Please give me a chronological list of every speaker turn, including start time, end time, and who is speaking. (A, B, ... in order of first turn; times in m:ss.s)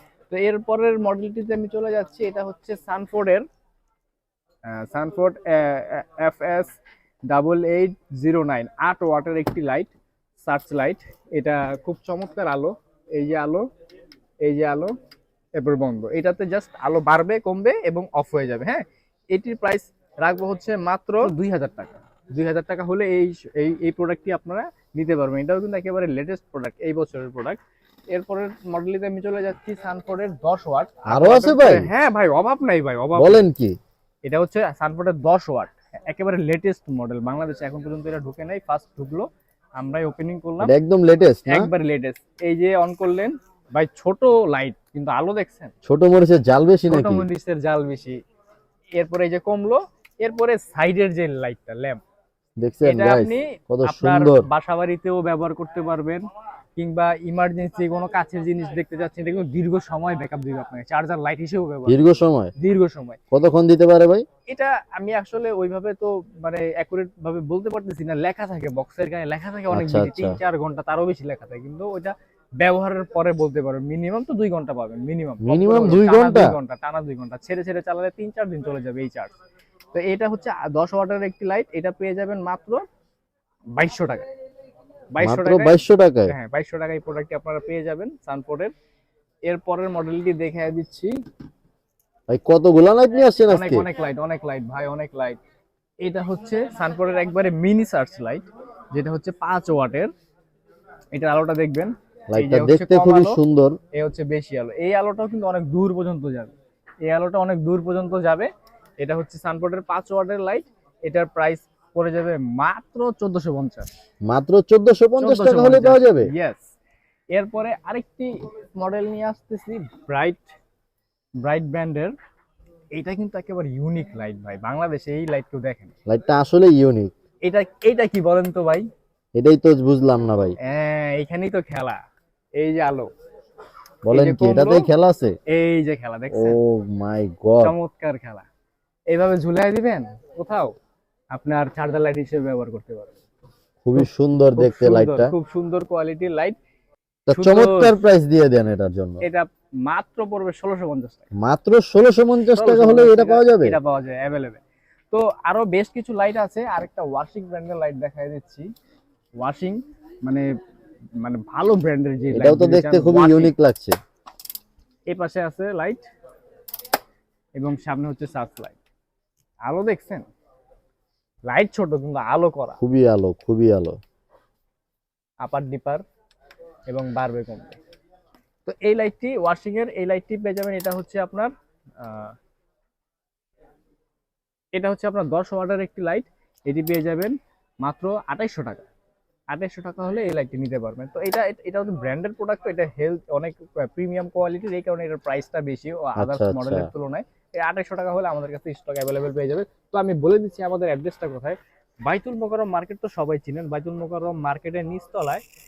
0:00.3-0:03.4 A
0:04.7-0:06.8 A
0:07.3-0:13.6 A
0:14.4-0:14.9 A
0:15.5-0:27.6 A
0:28.1-0:33.4 A
0:31.1-0:31.9 B
0:33.2-0:33.8 B
0:34.2-0:40.7 A
0:40.6-0:41.7 B
0:41.4-0:45.7 A
0:45.8-0:47.2 B
0:46.9-0:48.2 A
0:49.0-0:52.0 A
0:52.6-0:54.5 B
0:52.8-0:56.2 A
0:56.8-1:02.0 A
1:01.8-1:02.5 B
1:02.6-1:03.2 A
1:03.3-1:04.2 B
1:04.4-1:19.4 A
1:09.7-1:10.4 B
1:15.4-1:16.6 B
1:19.9-1:22.8 A
1:23.8-1:24.2 A
1:25.1-1:28.7 A
1:25.2-1:26.3 B
1:29.4-1:31.1 A
1:32.3-1:33.9 B
1:33.5-1:35.4 A
1:36.0-1:40.1 A
1:41.1-1:43.4 A
1:42.3-1:43.8 B
1:43.9-1:46.5 A
1:47.0-1:53.9 A
1:54.3-1:56.3 B
1:55.2-1:56.7 A
1:57.3-2:00.5 A
2:01.4-2:02.1 A
2:03.0-2:05.9 A
2:06.1-2:07.1 B
2:07.4-2:08.9 A
2:09.3-2:10.5 B
2:10.6-2:12.0 A
2:12.6-2:13.1 A
2:14.0-2:15.4 B
2:14.1-2:14.9 A
2:15.5-2:16.6 A
2:16.3-2:17.7 B
2:17.6-2:18.4 A
2:19.1-2:20.7 A
2:21.3-2:23.2 A
2:23.8-2:25.3 B
2:24.0-2:26.6 A
2:27.3-2:29.2 B
2:27.3-2:27.9 A
2:29.2-2:31.3 A
2:31.4-2:33.8 B
2:32.5-2:38.6 A
2:39.4-2:40.5 A
2:41.2-2:43.5 A
2:42.3-2:44.0 B
2:45.1-2:46.1 A
2:47.6-2:48.8 A
2:49.6-2:50.3 A
2:51.4-2:52.8 A
2:52.8-2:54.0 B
2:55.4-2:56.0 A
2:56.9-2:57.8 A
2:58.6-3:02.3 A
3:04.7-3:08.8 A
3:09.5-3:25.4 A
3:16.2-3:16.9 B